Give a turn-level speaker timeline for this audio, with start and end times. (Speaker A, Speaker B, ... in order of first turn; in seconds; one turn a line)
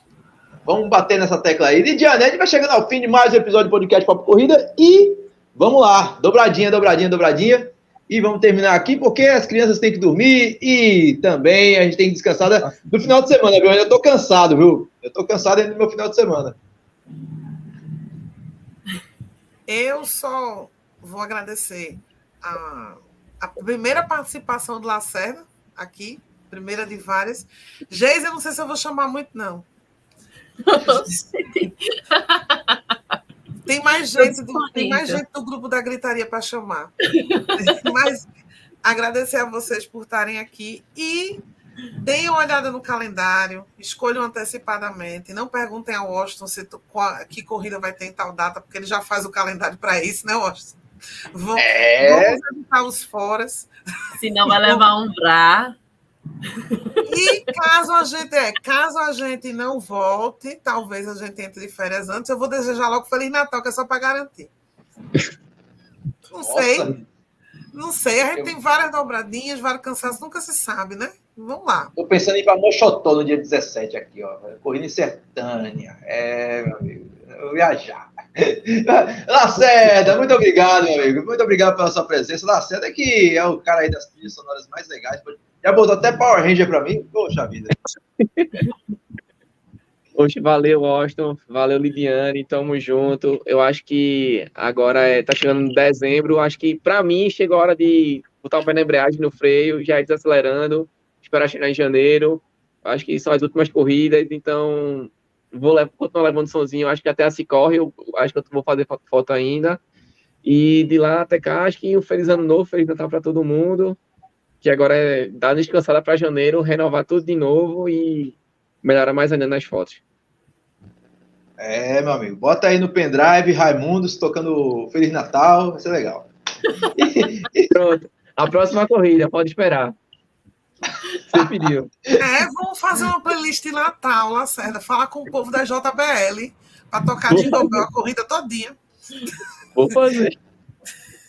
Speaker A: 0.7-16.6
Speaker B: 19.7-29.7
Speaker C: 30.6-32.9
Speaker B: 33.7-37.0
Speaker C: 34.2-35.2
Speaker C: 37.1-37.6
Speaker B: 37.5-38.3
Speaker B: 38.8-41.4
Speaker B: 42.0-50.8
Speaker B: 51.3-53.7
Speaker A: 51.6-52.4
Speaker C: 54.2-55.8
Speaker B: 54.5-54.8
Speaker B: 57.1-64.5
Speaker B: 66.3-66.9
Speaker A: 66.4-67.1
Speaker B: 67.7-71.9
Speaker A: 72.0-87.7
Speaker D: 88.2-88.7
Speaker D: 90.2-109.8
Speaker D: 110.4-114.0
Speaker D: 114.6-120.0
Speaker A: 121.6-126.3
Speaker A: 126.9-127.7
Speaker D: 127.7-129.9
Speaker D: 131.2-131.9
Speaker A: 131.3-132.2
Speaker B: 132.2-138.8
Speaker D: 137.3-137.9
Speaker D: 139.8-140.3